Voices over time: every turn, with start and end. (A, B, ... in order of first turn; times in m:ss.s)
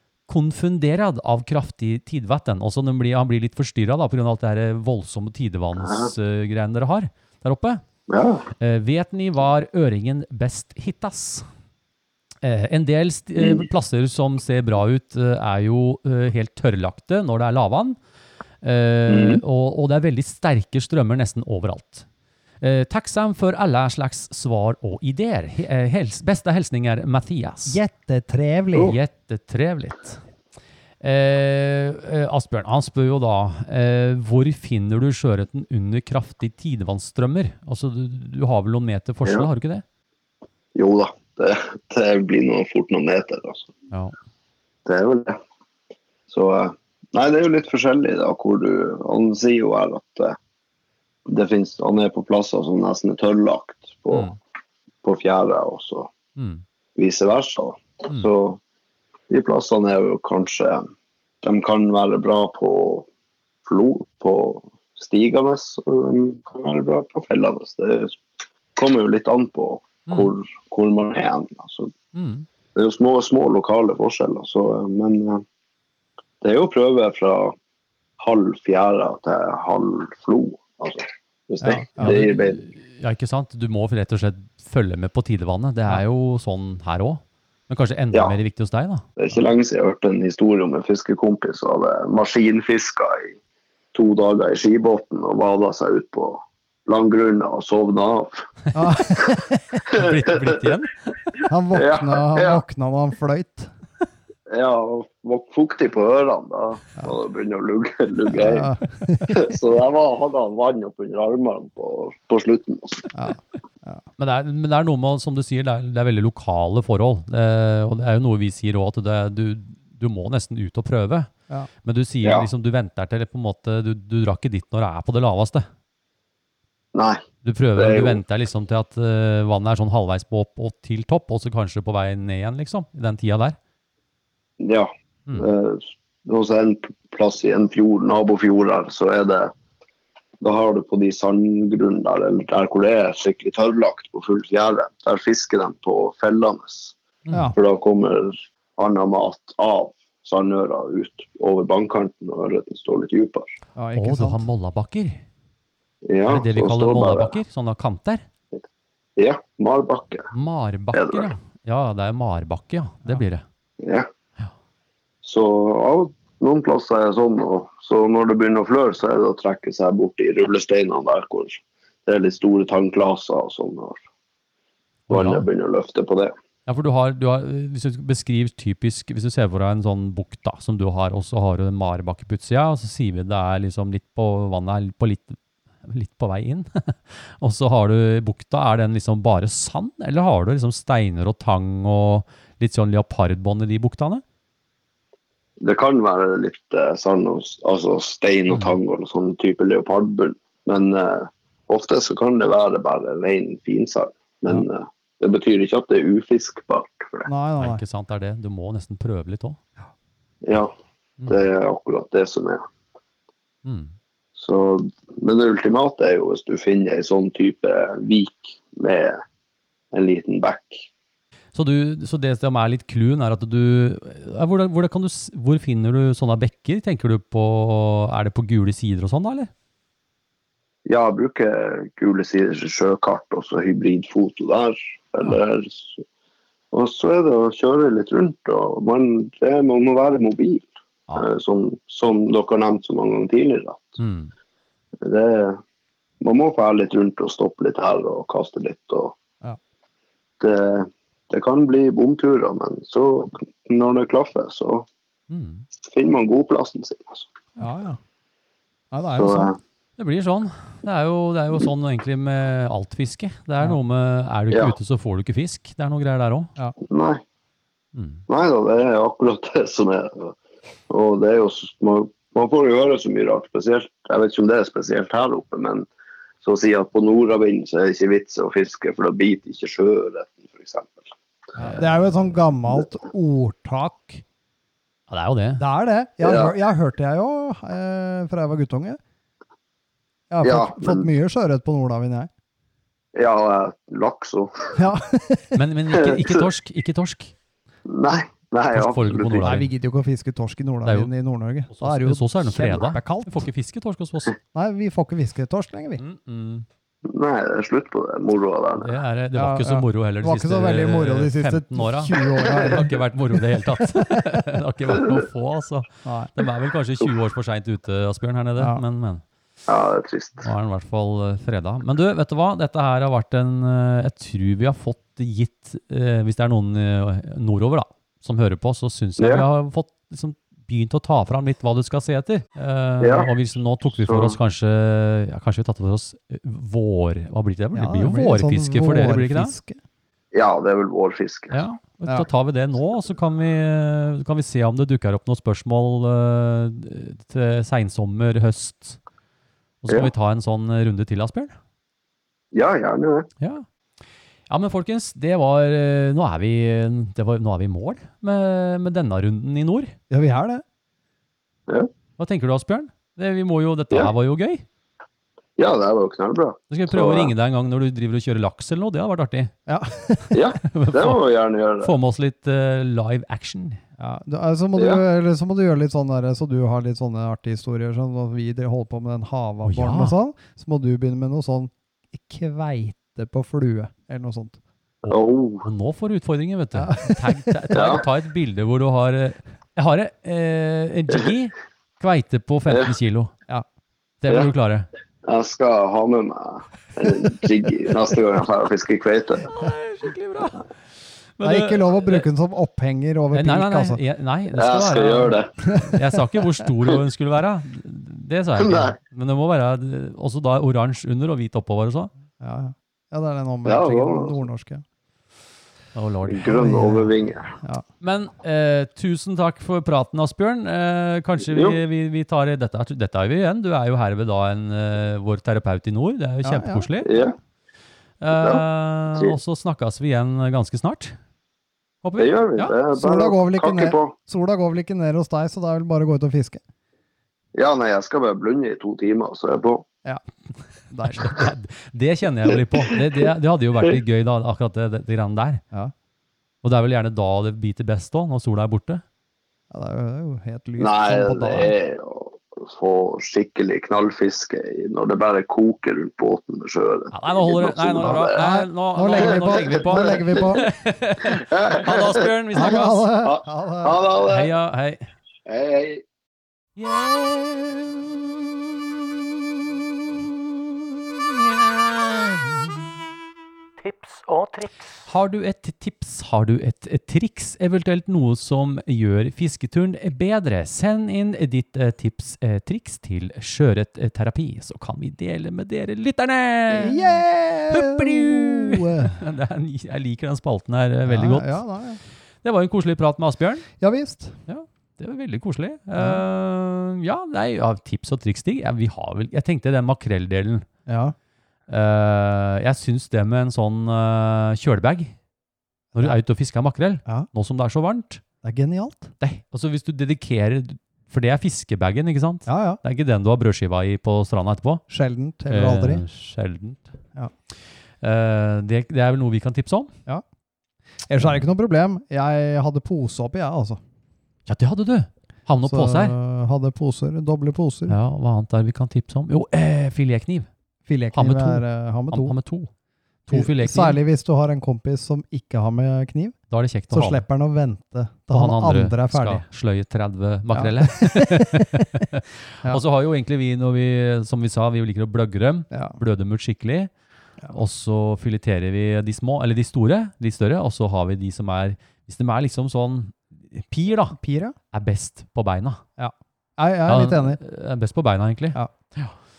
0:00.3-0:07.8 A
0:05.8-0:06.1 B
0:08.1-0:08.5 B
0:08.6-0:11.4 A
0:12.4-0:18.0 A
0:13.4-0:13.6 B
0:18.6-0:22.0 A
0:19.1-0:19.4 B
0:22.6-0:27.8 A
0:27.7-0:29.0 C
0:28.8-0:30.2 A
0:31.0-0:39.8 A
0:40.7-0:43.7 B
0:44.8-0:45.4 B
0:46.3-0:50.4 B
0:51.3-0:54.3 B
0:54.1-0:54.4 A
0:55.0-0:56.1 B
0:56.4-0:56.6 A
0:57.0-0:58.6 B
0:59.3-1:00.9 B
1:01.4-1:03.0 B
1:03.6-1:08.2 B
1:08.8-1:11.9 B
1:12.1-1:12.4 A
1:12.7-1:15.4 B
1:16.4-1:17.5 B
1:18.2-1:22.6 B
1:21.6-1:22.2 C
1:22.0-1:29.1 A
1:29.2-1:33.4 B
1:33.9-1:38.4 B
1:38.7-1:39.5 C
1:39.1-1:41.0 A
1:39.8-1:40.6 B
1:41.5-1:43.7 C
1:41.7-1:42.6 B
1:44.5-1:48.7 B
1:48.3-1:49.3 C
1:49.2-1:53.1 B
1:53.1-1:54.0 C
1:54.2-2:01.3 A
2:01.8-2:05.7 A
2:02.2-2:02.5 B
2:06.9-2:07.2 B
2:07.4-2:13.6 A
2:07.8-2:08.2 B
2:14.6-2:19.5 B
2:20.4-2:26.9 B
2:27.5-2:33.5 B
2:33.8-2:34.4 C
2:34.0-2:35.2 A
2:36.0-2:37.3 B
2:36.2-2:38.2 A
2:39.2-2:40.3 B
2:40.3-2:43.4 A
2:40.9-2:41.3 B
2:43.8-2:44.1 B
2:45.2-2:54.0 B
2:55.1-2:55.5 A
2:55.1-2:56.3 B
2:56.7-3:14.2 A
3:15.6-3:27.3 B
3:27.2-3:27.8 C
3:27.6-3:29.6 A
3:30.4-3:30.7 B
3:31.3-3:32.6 B
3:33.6-3:33.9 A
3:34.4-3:39.2 B
3:39.9-3:40.9 B
3:41.5-3:49.5 A
3:50.8-3:56.0 B
3:56.7-4:04.0 B
4:04.0-4:04.3 A
4:05.0-4:05.6 B
4:06.2-4:09.2 B
4:10.4-4:14.9 B
4:15.3-4:15.6 A
4:15.8-4:17.3 B
4:17.6-4:18.0 C
4:18.9-4:19.5 C
4:19.1-4:19.6 B
4:20.0-4:26.5 A
4:26.8-4:27.2 B
4:27.9-4:28.2 A
4:28.3-4:30.3 B
4:30.9-4:35.9 B
4:36.4-4:41.1 B
4:41.6-4:44.2 C
4:45.1-4:45.6 A
4:45.6-4:49.0 C
4:46.2-4:46.5 B
4:50.3-4:52.3 C
4:50.4-4:51.1 B
4:53.1-4:54.8 B
4:54.7-4:55.6 C
4:55.6-4:57.3 A
4:55.9-4:56.4 B
4:57.9-4:59.5 B
4:58.7-4:59.7 A
4:59.4-5:03.5 C
5:00.8-5:01.1 A
5:01.7-5:04.4 A
5:04.5-5:06.0 C
5:06.0-5:06.6 A
5:07.0-5:09.0 B
5:08.8-5:19.2 A
5:09.3-5:12.9 C
5:13.8-5:14.2 C
5:16.0-5:16.3 C
5:19.7-5:20.5 B
5:20.4-5:39.5 A
5:29.2-5:29.4 B
5:33.0-5:33.3 B
5:33.9-5:34.4 B
5:37.7-5:39.8 C
5:40.3-5:41.6 B
5:41.5-5:49.0 A
5:49.8-5:51.5 A
5:52.5-5:53.3 B
5:53.4-5:53.6 A
5:54.5-5:59.9 A
6:00.1-6:00.6 C
6:02.2-6:04.6 A
6:05.6-6:07.3 B
6:06.7-6:09.5 A
6:09.7-6:10.4 C
6:10.3-6:11.9 B
6:10.6-6:11.2 A
6:11.8-6:13.8 A
6:14.0-6:24.6 C
6:14.8-6:15.0 B
6:19.6-6:20.2 A
6:25.0-6:25.6 B
6:25.6-6:33.3 A
6:26.7-6:27.8 C
6:27.7-6:28.0 B
6:34.2-6:34.9 A
6:35.2-6:39.5 B
6:39.5-6:40.7 A
6:41.4-6:42.2 A
6:41.4-6:44.0 C
6:43.3-6:52.1 A
6:44.5-6:45.5 B
6:45.7-6:46.0 C
6:48.6-6:48.9 B
6:52.4-6:54.8 C
6:53.6-6:54.4 B
6:55.9-6:56.8 A
6:56.3-6:57.5 B
6:56.5-6:57.0 C
6:58.0-7:07.1 A
7:01.4-7:01.8 B
7:06.4-7:06.9 C
7:07.0-7:07.3 B
7:08.2-7:11.2 A
7:08.3-7:08.6 B
7:12.0-7:12.8 A
7:12.2-7:14.1 B
7:12.9-7:16.6 C
7:17.5-7:19.8 B
7:20.9-7:21.4 C
7:21.0-7:25.6 A
7:26.6-7:29.0 A
7:29.7-7:31.7 C
7:30.8-7:38.4 B
7:37.1-7:43.1 A
7:38.0-7:40.7 C
7:39.2-7:40.3 B
7:41.3-7:44.5 B
7:42.5-7:44.0 C
7:44.2-7:45.0 A
7:45.4-7:46.0 B
7:46.8-7:48.0 A
7:53.8-8:11.6 A
8:06.7-8:09.2 C
8:11.0-8:12.0 C
8:12.4-8:13.7 A
8:13.8-8:14.4 C
8:14.5-8:20.7 A
8:16.0-8:16.2 C
8:20.8-8:21.1 C
8:21.7-8:25.1 A
8:25.9-8:28.2 A
8:28.4-8:29.1 C
8:29.2-8:34.8 A
8:32.4-8:32.8 C
8:34.9-8:36.0 C
8:35.5-8:36.9 A
8:38.0-8:39.9 A
8:41.1-8:43.8 C
8:44.5-8:46.1 A
8:45.7-8:47.9 C
8:47.9-8:50.5 A
8:50.8-8:52.3 C
8:51.1-8:52.7 A
8:53.3-8:54.0 A
8:53.3-8:56.4 C
8:56.5-8:57.2 A
8:56.9-8:59.4 C
8:58.3-9:06.9 A
9:00.5-9:02.0 C
9:05.7-9:06.0 C
9:07.5-9:14.2 A
9:14.1-9:14.6 C
9:14.7-9:15.8 A
9:16.0-9:17.4 C
9:16.9-9:19.1 A